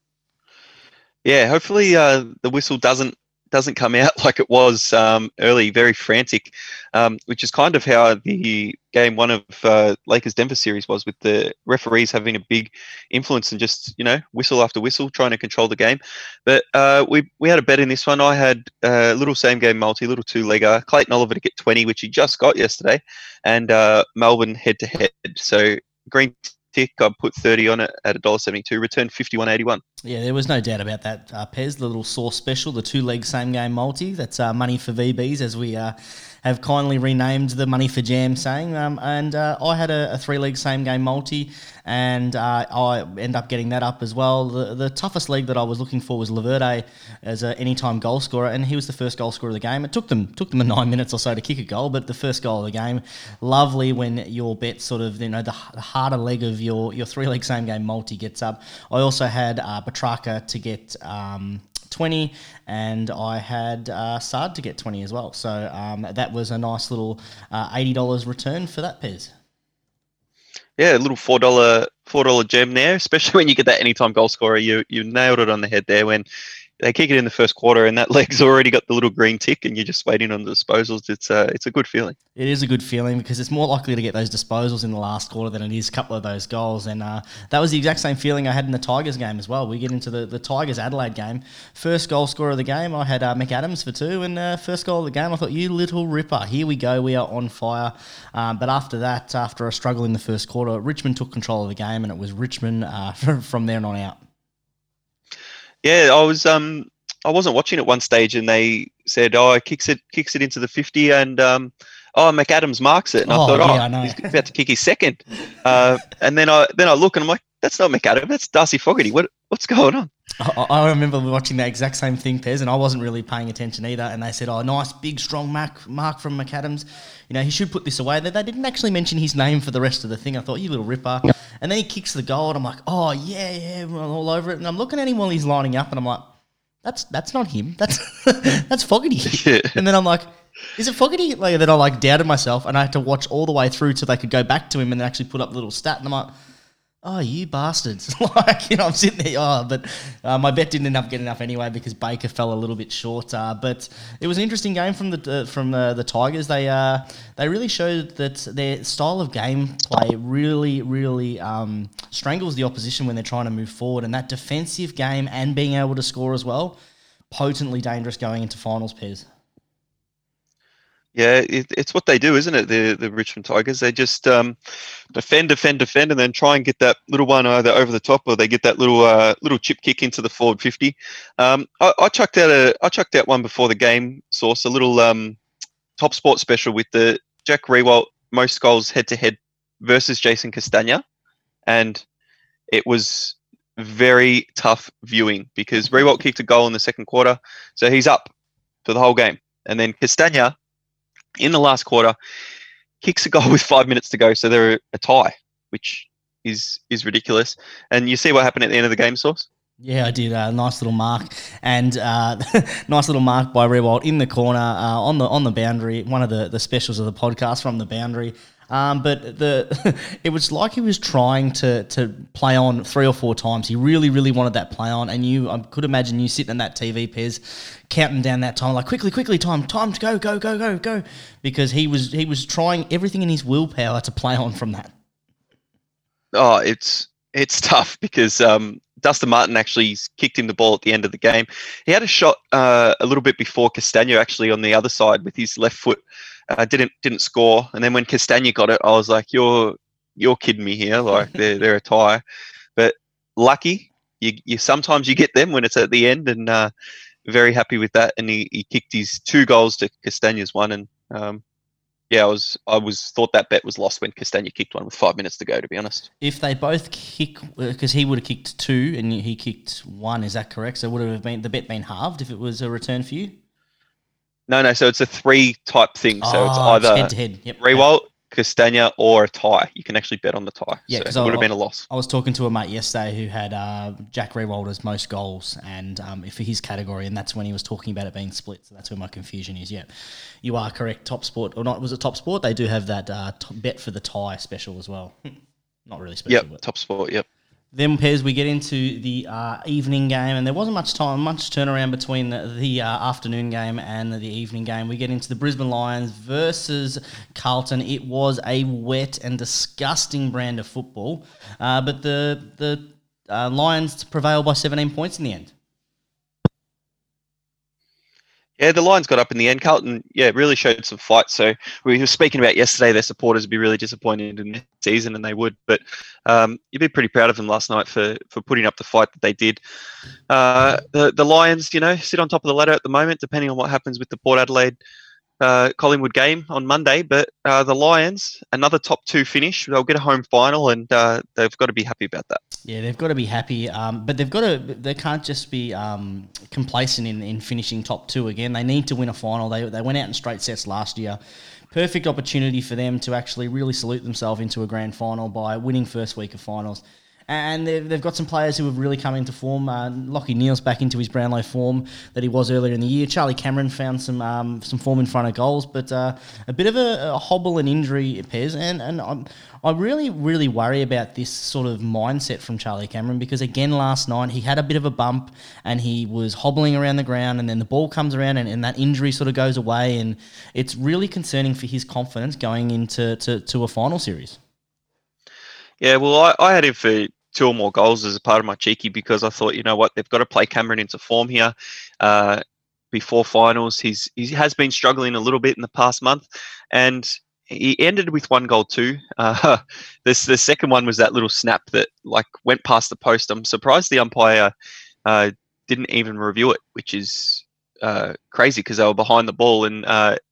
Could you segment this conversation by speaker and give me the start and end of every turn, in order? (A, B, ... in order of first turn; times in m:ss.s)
0:01.2-0:29.8 A
0:30.0-1:09.3 B
1:10.8-1:16.2 A
1:16.8-1:22.2 A
1:22.4-1:44.2 B
1:45.8-2:00.1 A
1:53.3-1:54.4 B
2:00.4-2:26.3 B
2:19.3-2:19.8 A
2:27.0-2:46.8 B
2:47.3-2:49.2 B
2:51.1-2:54.6 A
2:55.1-3:05.4 A
3:06.0-3:11.0 A
3:11.7-3:12.0 A
3:12.7-3:18.3 A
3:18.8-3:20.5 A
3:21.4-3:22.2 A
3:23.0-3:29.5 A
3:29.8-3:54.9 B
3:56.3-4:12.2 A
4:12.8-4:16.7 A
4:17.2-4:21.4 A
4:22.1-4:26.1 A
4:26.2-4:33.4 B
4:34.5-4:41.8 A
4:36.2-4:37.9 B
4:40.9-4:49.9 B
4:50.4-4:55.1 B
4:55.9-4:56.6 B
4:56.3-4:57.2 A
4:57.7-5:15.5 B
5:18.6-5:29.6 A
5:30.3-5:34.8 A
5:35.4-5:42.4 A
5:42.6-5:51.2 B
5:51.7-6:24.4 B
6:25.8-6:44.5 A
6:45.0-6:50.2 A